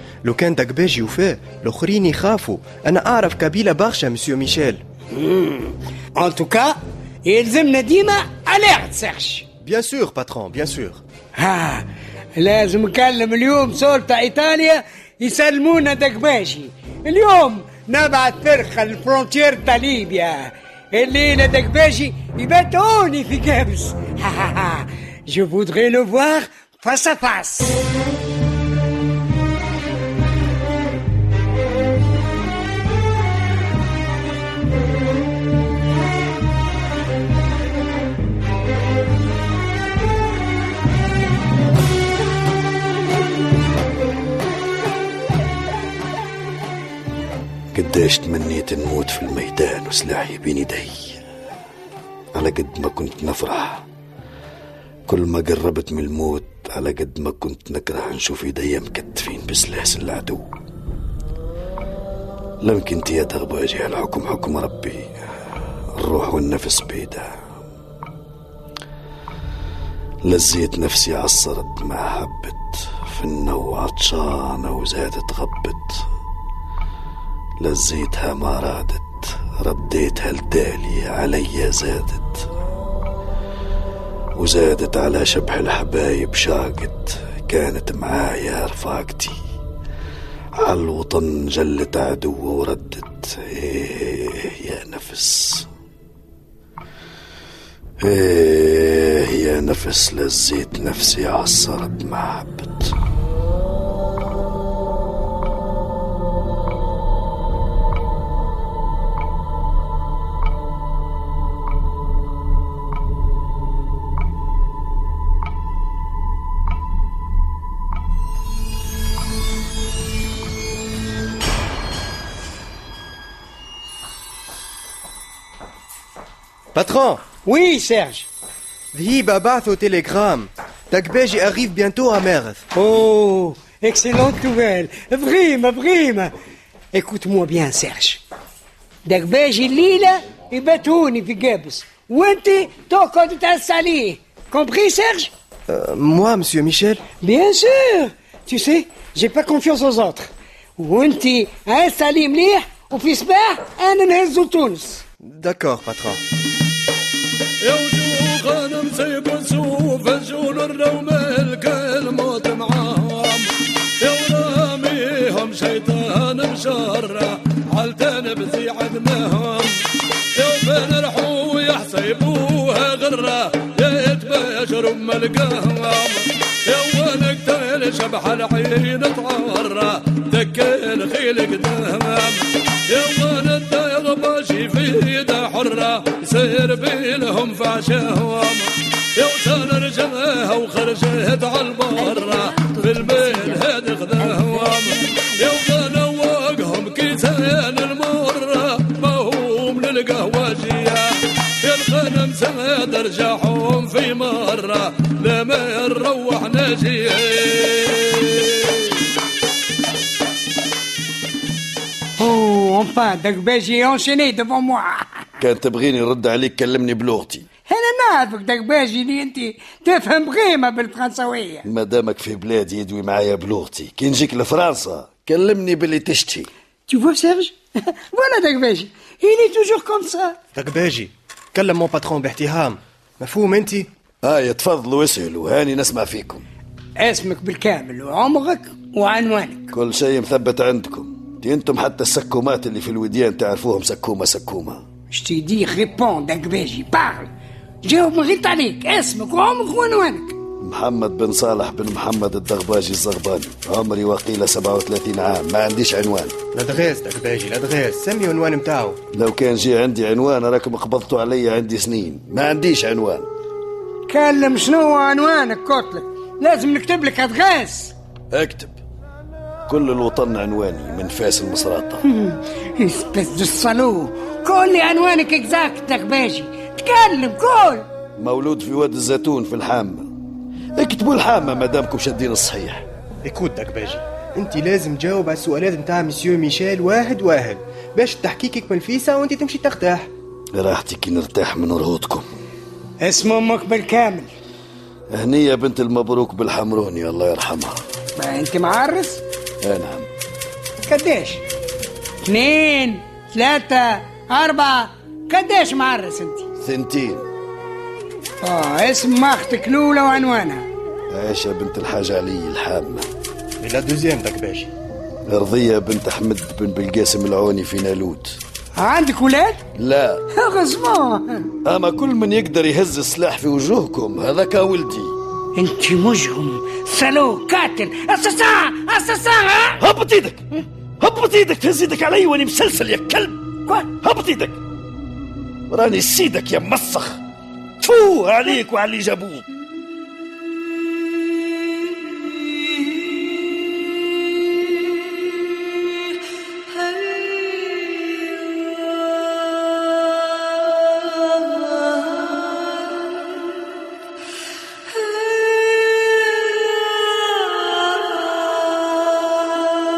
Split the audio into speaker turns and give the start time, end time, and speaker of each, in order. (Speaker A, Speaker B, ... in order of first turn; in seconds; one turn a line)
Speaker A: 0.2-4.8
Speaker B: 5.2-9.4
Speaker A: 9.6-11.0
Speaker B: 11.3-11.8
Speaker B: 12.4-27.8
Speaker C: 47.7-51.2
Speaker C: 52.4-53.9
Speaker C: 55.1-60.5
Speaker C: 62.6-65.3
Speaker C: 66.0-67.4
Speaker C: 70.2-76.0
Speaker C: 77.6-82.5
Speaker C: 84.4-89.4
Speaker C: 90.6-95.7
Speaker C: 98.0-102.9
Speaker A: 126.7-127.2
Speaker B: 127.5-128.3
Speaker A: 128.9-132.6
Speaker B: 132.8-136.3
Speaker B: 136.9-138.2
Speaker B: 139.1-145.3
Speaker A: 145.7-147.0
Speaker B: 147.2-155.0
Speaker A: 155.3-156.2
Speaker D: 157.6-169.8
Speaker D: 170.4-208.9
Speaker B: 212.2-215.1
Speaker C: 215.4-217.5
Speaker B: 217.7-221.6
Speaker C: 221.7-226.5
Speaker B: 226.9-227.6
Speaker B: 228.1-230.4
Speaker A: 230.6-233.9
Speaker C: 234.2-236.4
Speaker B: 237.0-239.7
Speaker C: 239.7-244.8
Speaker B: 245.1-247.3
Speaker B: 247.8-250.3
Speaker C: 250.6-256.3
Speaker A: 256.5-259.0
Speaker C: 259.1-263.3
Speaker B: 264.1-267.9
Speaker C: 268.3-268.8
Speaker C: 269.7-272.0
Speaker B: 272.1-277.9
Speaker C: 278.2-280.1
Speaker C: 280.8-282.9
Speaker A: 283.2-290.1
Speaker C: 290.5-292.3
Speaker B: 293.0-294.3
Speaker C: 295.1-297.8
Speaker B: 298.2-299.2
Speaker C: 299.6-300.1
Speaker B: 300.9-301.4
Speaker B: 302.3-306.4
Speaker C: 306.6-307.3
Speaker B: 308.4-310.6
Speaker C: 311.1-313.1
Speaker A: 313.6-314.7
Speaker C: 315.3-318.4
Speaker B: 318.8-319.6
Speaker C: 319.8-320.2
Speaker B: 320.4-321.5
Speaker C: 321.7-325.1
Speaker B: 325.6-329.8
Speaker C: 329.8-330.4
Speaker C: 331.0-334.6
Speaker C: 335.7-337.2
Speaker C: 337.8-339.4